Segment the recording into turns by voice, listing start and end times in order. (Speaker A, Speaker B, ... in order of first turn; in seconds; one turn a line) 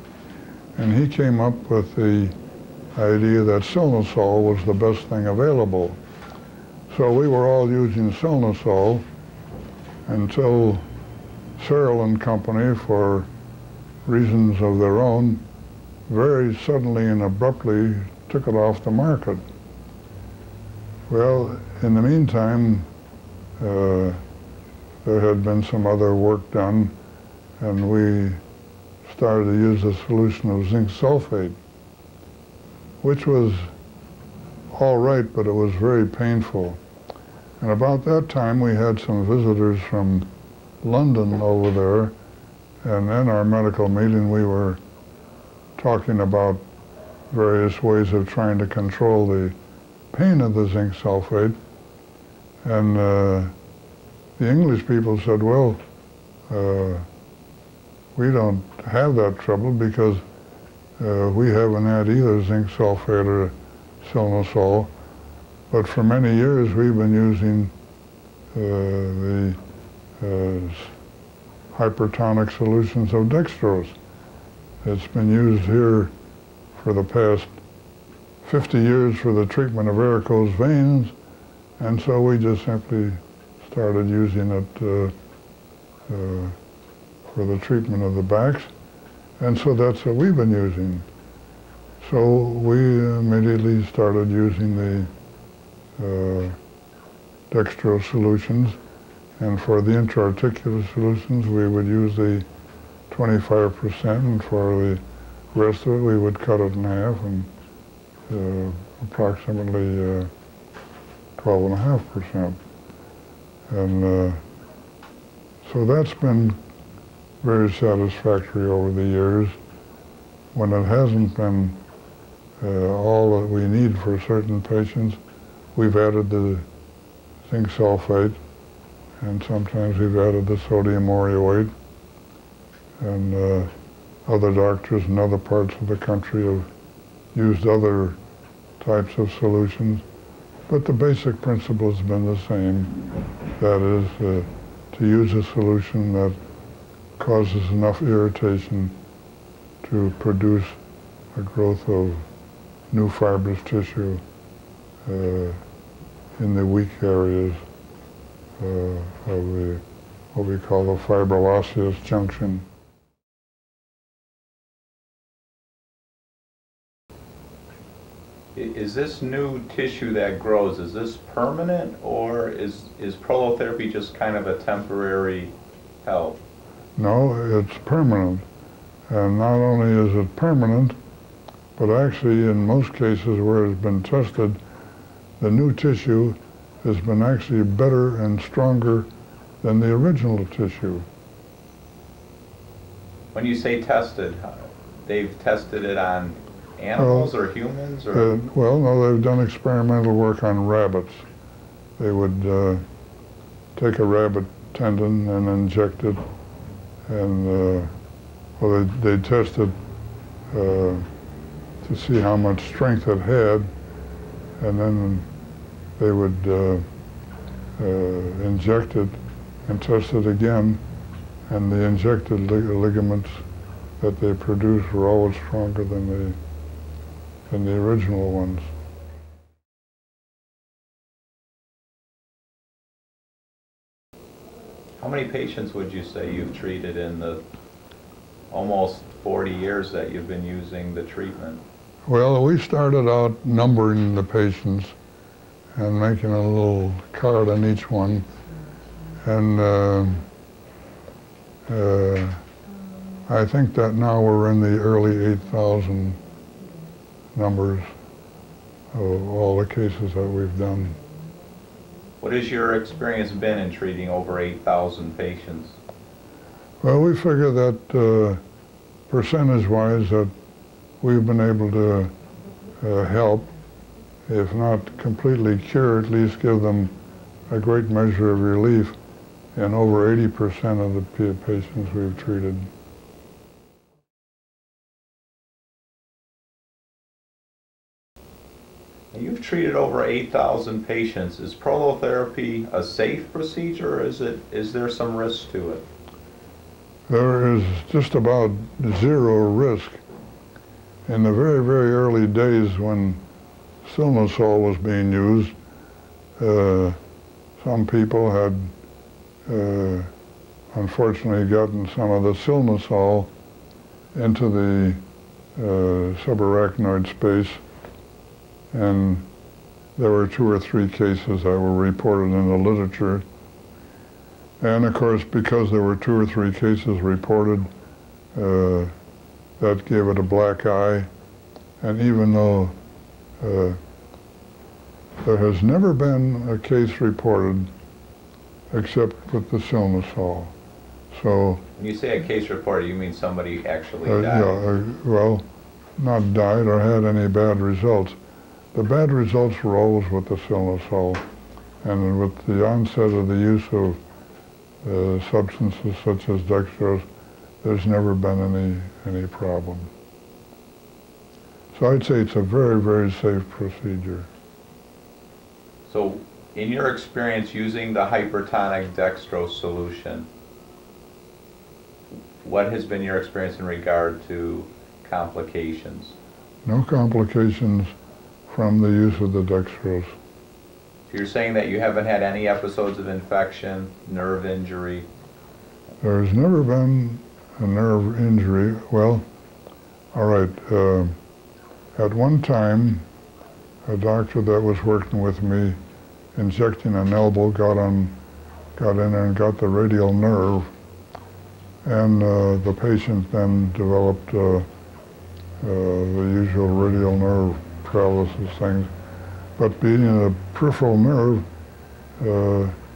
Speaker A: 0.8-2.3
Speaker A: 2.9-6.0
Speaker A: 6.9-9.0
Speaker A: 10.1-10.8
Speaker A: 11.6-13.3
Speaker A: 14.0-15.4
Speaker A: 16.1-19.4
Speaker A: 21.1-22.9
Speaker A: 23.6-24.2
Speaker A: 25.0-26.9
Speaker A: 27.6-28.4
Speaker A: 29.0-31.6
Speaker A: 33.0-33.7
Speaker A: 34.7-36.8
Speaker A: 37.6-40.3
Speaker A: 40.8-42.1
Speaker A: 42.8-44.8
Speaker A: 45.8-46.6
Speaker A: 47.3-49.5
Speaker A: 50.1-51.5
Speaker A: 52.6-53.5
Speaker A: 54.4-55.8
Speaker A: 56.5-57.1
Speaker A: 58.1-60.2
Speaker A: 61.0-64.9
Speaker A: 65.7-67.7
Speaker A: 68.5-69.6
Speaker A: 70.2-70.9
Speaker A: 71.7-74.0
Speaker A: 74.8-76.1
Speaker A: 76.8-77.6
Speaker A: 78.4-81.1
Speaker A: 81.8-85.1
Speaker A: 86.1-86.5
Speaker A: 87.3-88.7
Speaker A: 89.4-91.0
Speaker A: 92.0-95.1
Speaker A: 96.0-96.6
Speaker A: 97.5-98.8
Speaker A: 99.4-102.5
Speaker A: 103.1-105.0
Speaker A: 105.5-107.5
Speaker A: 108.3-110.3
Speaker A: 111.4-112.6
Speaker A: 113.7-114.4
Speaker A: 115.6-116.6
Speaker A: 117.4-119.5
Speaker A: 120.5-121.8
Speaker A: 122.6-125.2
Speaker A: 125.7-126.7
Speaker A: 127.4-128.4
Speaker A: 129.2-131.7
Speaker A: 133.0-133.7
Speaker A: 134.2-136.7
Speaker A: 137.3-138.2
Speaker A: 138.8-140.0
Speaker A: 140.7-143.0
Speaker A: 143.6-146.4
Speaker A: 147.2-149.0
Speaker A: 149.8-150.8
Speaker A: 151.3-152.2
Speaker A: 152.9-154.2
Speaker A: 155.0-155.6
Speaker A: 156.4-157.6
Speaker A: 158.6-162.7
Speaker B: 168.5-176.4
Speaker A: 176.9-178.4
Speaker A: 179.1-181.0
Speaker A: 181.8-184.6
Speaker A: 185.4-189.1
Speaker A: 189.6-191.0
Speaker B: 193.3-198.3
Speaker A: 197.0-197.3
Speaker A: 198.1-201.2
Speaker A: 202.0-202.8
Speaker A: 203.7-206.2
Speaker A: 207.1-207.9
Speaker A: 208.6-209.7
Speaker A: 210.5-211.1
Speaker A: 211.8-213.7
Speaker A: 214.6-215.3
Speaker A: 216.0-216.8
Speaker A: 217.8-220.8
Speaker A: 221.5-223.4
Speaker A: 224.0-226.4
Speaker A: 227.5-228.7
Speaker B: 235.0-237.4
Speaker B: 238.5-241.6
Speaker A: 242.1-244.9
Speaker A: 245.7-248.3
Speaker A: 249.2-250.2
Speaker A: 251.7-252.4
Speaker A: 253.3-256.2
Speaker A: 257.3-257.8
Speaker A: 258.9-261.0
Speaker B: 262.2-265.8
Speaker A: 266.8-268.4
Speaker A: 269.1-270.3
Speaker A: 271.0-272.1
Speaker A: 272.8-273.5
Speaker A: 274.3-276.9
Speaker A: 277.5-278.9
Speaker A: 279.5-282.7
Speaker B: 289.1-295.9
Speaker A: 297.1-300.0
Speaker A: 301.1-303.2
Speaker A: 303.8-305.5
Speaker A: 306.4-307.0
Speaker A: 307.6-308.7
Speaker A: 309.4-310.1
Speaker A: 310.7-313.3
Speaker A: 314.1-315.0
Speaker A: 315.6-317.6
Speaker A: 318.7-319.3
Speaker A: 319.9-323.2
Speaker A: 324.6-327.7
Speaker A: 328.3-328.9
Speaker A: 329.6-331.1
Speaker A: 331.8-332.7
Speaker A: 333.4-333.8
Speaker A: 335.2-337.7
Speaker A: 338.7-340.5
Speaker A: 341.1-341.6
Speaker B: 341.8-344.6
Speaker A: 344.1-345.4
Speaker A: 346.0-348.2
Speaker A: 348.7-351.2
Speaker A: 351.8-354.0
Speaker A: 354.8-357.0
Speaker A: 357.6-359.9
Speaker A: 361.7-364.3
Speaker B: 365.9-370.3
Speaker B: 372.4-376.1
Speaker A: 376.6-377.9
Speaker A: 378.5-380.1
Speaker B: 381.1-385.1
Speaker A: 386.0-389.2
Speaker A: 390.1-391.1
Speaker A: 391.9-393.0
Speaker A: 393.8-395.8
Speaker A: 396.3-398.2
Speaker A: 398.8-400.7
Speaker A: 401.8-404.6
Speaker A: 405.6-408.9
Speaker A: 409.6-411.4
Speaker A: 412.2-412.8